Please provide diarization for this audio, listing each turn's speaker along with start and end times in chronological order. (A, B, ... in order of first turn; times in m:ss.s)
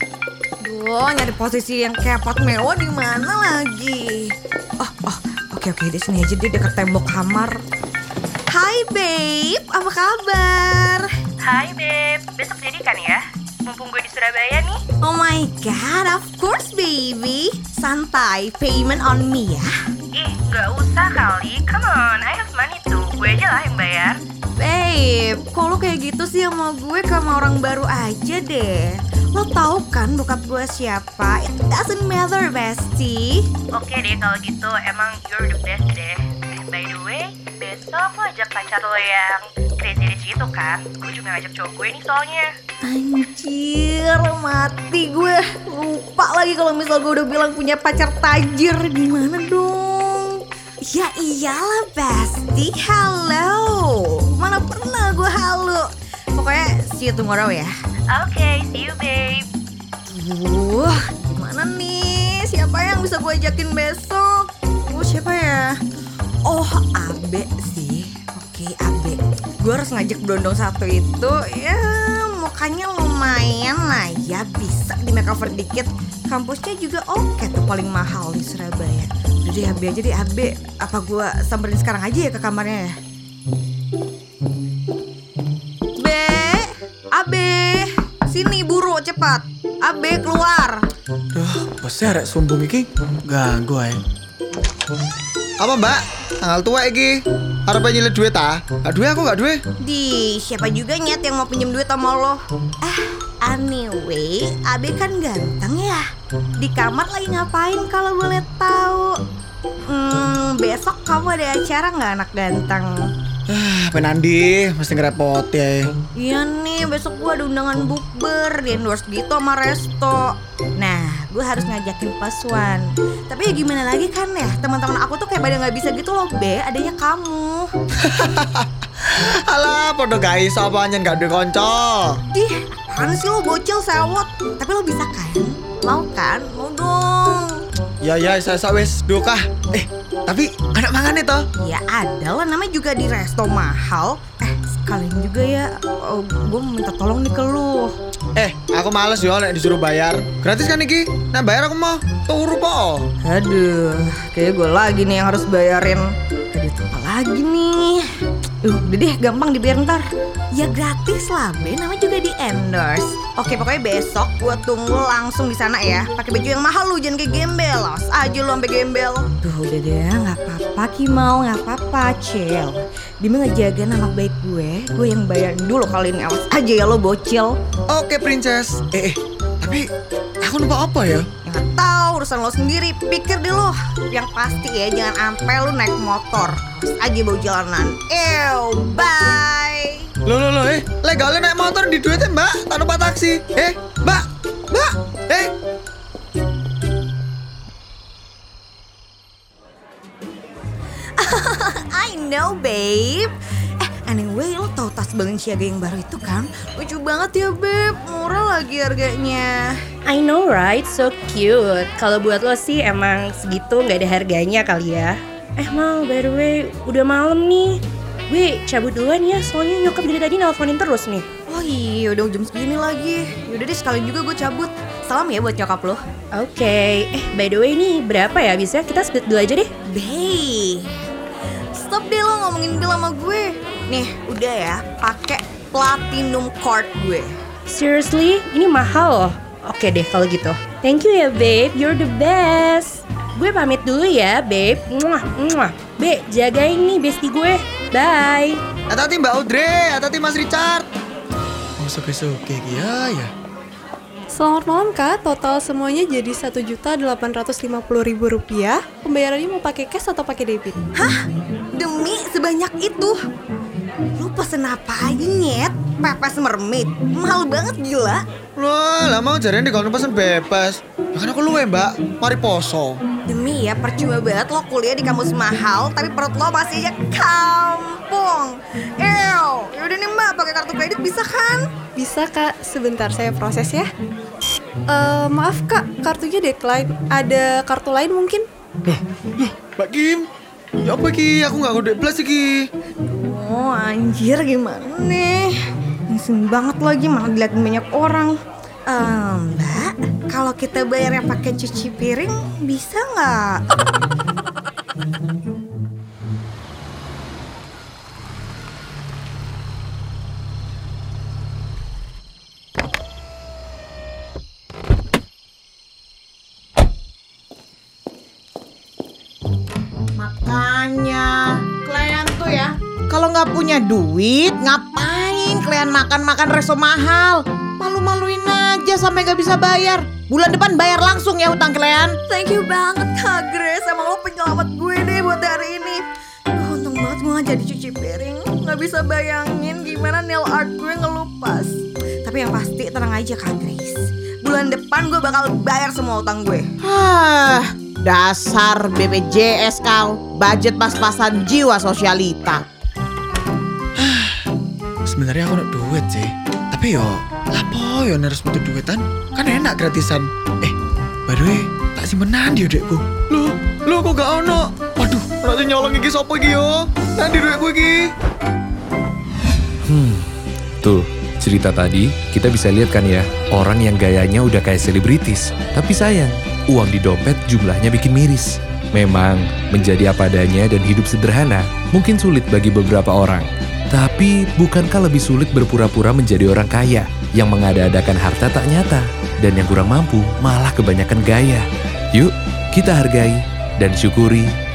0:00.6-0:07.6 A
0:08.5-0:11.1 A
0:11.4-0:14.8 B
0:15.0-0:19.7 A
0:20.1-0:24.2 B
0:24.6-0:33.5 A
0:33.7-0:42.5 B
0:42.8-0:57.7 A
0:58.1-0:59.5 B
1:00.1-1:05.8 A
1:06.4-1:22.9 A
1:26.0-1:30.8 A
1:31.3-1:34.0 C
1:35.6-1:39.6 C
1:39.8-1:46.0 A
1:46.6-1:49.1 A
1:49.9-1:53.1 A
1:53.5-1:55.9 C
1:56.1-2:07.7 A
2:08.0-2:12.2 C
2:12.3-2:17.6 A
2:18.0-2:21.4 C
2:21.6-2:27.9 A
2:28.4-2:33.0 C
2:33.2-2:38.0 A
2:38.6-2:57.5 A
2:57.9-2:59.9 C
3:00.4-3:01.2 C
3:01.4-3:10.1 A
3:10.2-3:15.5 C
3:21.2-3:29.8 A
3:30.0-3:41.2 B
3:41.5-3:46.0 A
3:46.3-3:49.7 B
3:49.9-3:50.9 A
3:51.7-3:57.3 A
3:57.7-4:08.6 B
4:08.9-4:10.9 C
4:11.8-4:13.3 C
4:14.3-4:20.8 D
4:20.9-4:21.2 A
4:21.7-4:23.2 A
4:24.1-4:28.2 A
4:28.6-4:33.0 C
4:33.2-4:41.6 A
4:42.0-4:43.9 D
4:44.9-4:48.4 D
4:48.8-4:50.3 C
4:50.8-4:52.7 C
4:53.0-4:55.6 A
4:56.1-4:58.3 A
4:58.9-5:03.6 A
5:20.2-5:32.2 E
5:32.3-5:46.7 A
5:46.8-5:52.6 E
5:54.0-5:54.4 C
5:55.0-6:00.7 C
6:01.3-6:08.1 C
6:09.9-6:10.2 F
6:10.8-6:34.5 F